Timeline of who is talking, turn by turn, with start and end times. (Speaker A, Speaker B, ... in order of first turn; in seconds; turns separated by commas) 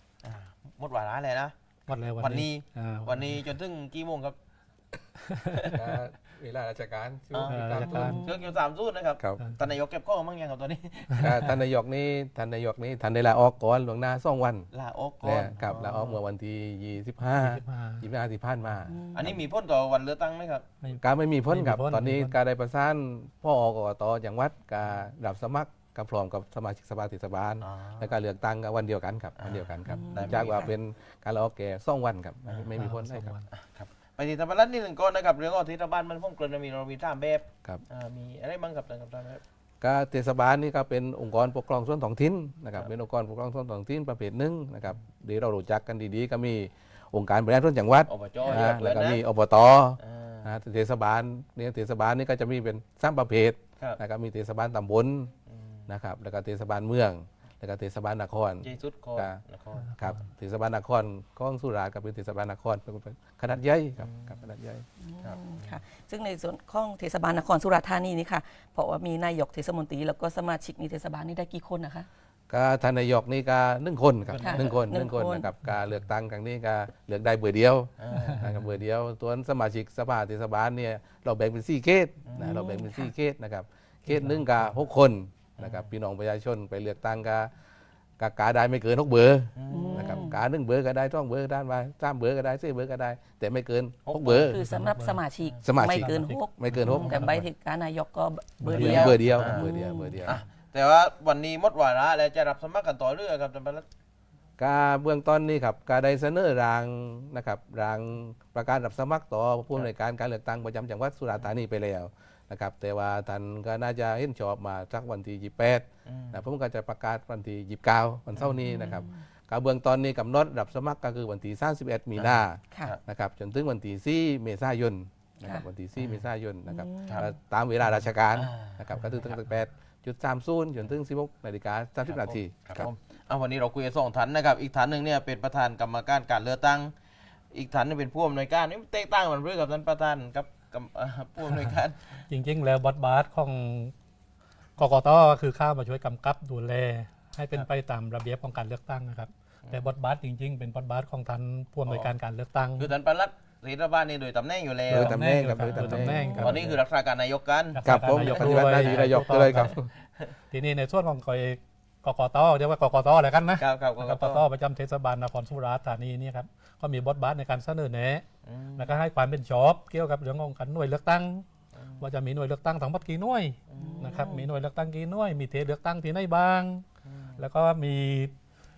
Speaker A: 0.2-1.5, Speaker B: 1.9-3.2, Speaker A: 2.2-4.4, Speaker B: 5.2-5.7, Speaker C: 5.7-8.2, Speaker A: 7.3-11.3, Speaker B: 7.5-8.2, Speaker D: 7.8-8.6, Speaker B: 11.2-11.4, Speaker C: 11.2-14.7, Speaker A: 14.7-16.2, Speaker C: 15.2-19.3, Speaker B: 17.3-18.1, Speaker D: 18.9-19.4, Speaker A: 19.1-20.6, Speaker B: 20.8-22.4, Speaker C: 21.0-33.3, Speaker A: 27.6-28.2, Speaker A: 29.4-30.7, Speaker D: 29.9-30.7, Speaker B: 32.8-33.5, Speaker A: 33.5-39.4, Speaker C: 39.8-55.3, Speaker A: 48.1-49.2, Speaker A: 50.0-50.5, Speaker A: 55.5-55.8, Speaker C: 55.9-59.4, Speaker A: 58.6-59.9, Speaker B: 59.8-60.2, Speaker C: 60.0-64.8, Speaker A: 64.0-64.4, Speaker D: 65.0-72.1, Speaker A: 65.2-65.8, Speaker C: 72.5-87.5, Speaker A: 74.3-74.7, Speaker D: 74.4-75.5, Speaker A: 78.0-78.5, Speaker B: 78.2-78.6, Speaker A: 82.3-82.6, Speaker D: 82.4-83.1, Speaker B: 84.1-84.7, Speaker A: 85.6-85.9, Speaker C: 88.2-94.6, Speaker A: 89.6-90.3, Speaker D: 89.7-90.4, Speaker A: 94.1-94.5, Speaker B: 94.4-95.2, Speaker D: 94.5-100.4, Speaker C: 95.6-97.2, Speaker B: 95.8-97.5, Speaker B: 98.6-99.2, Speaker A: 98.7-99.6, Speaker C: 98.7-100.4, Speaker A: 100.2-103.8, Speaker C: 104.6-132.9, Speaker A: 116.1-116.4, Speaker D: 118.7-119.2, Speaker A: 122.2-123.0, Speaker A: 126.0-126.2, Speaker D: 126.7-127.3, Speaker A: 128.3-129.4, Speaker A: 132.1-136.9, Speaker A: 137.5-142.2, Speaker B: 142.3-143.9, Speaker B: 144.8-152.9, Speaker A: 151.8-152.1, Speaker A: 152.8-159.1, Speaker B: 154.9-156.8, Speaker C: 154.9-156.2, Speaker D: 156.0-156.7, Speaker B: 157.7-159.8, Speaker C: 157.8-159.9, Speaker B: 160.5-168.2, Speaker A: 163.6-164.4, Speaker A: 168.5-168.9, Speaker B: 168.8-171.4, Speaker A: 171.8-172.0, Speaker B: 172.0-176.8, Speaker A: 173.7-174.2, Speaker D: 173.8-174.5, Speaker A: 177.1-177.4, Speaker B: 177.4-178.3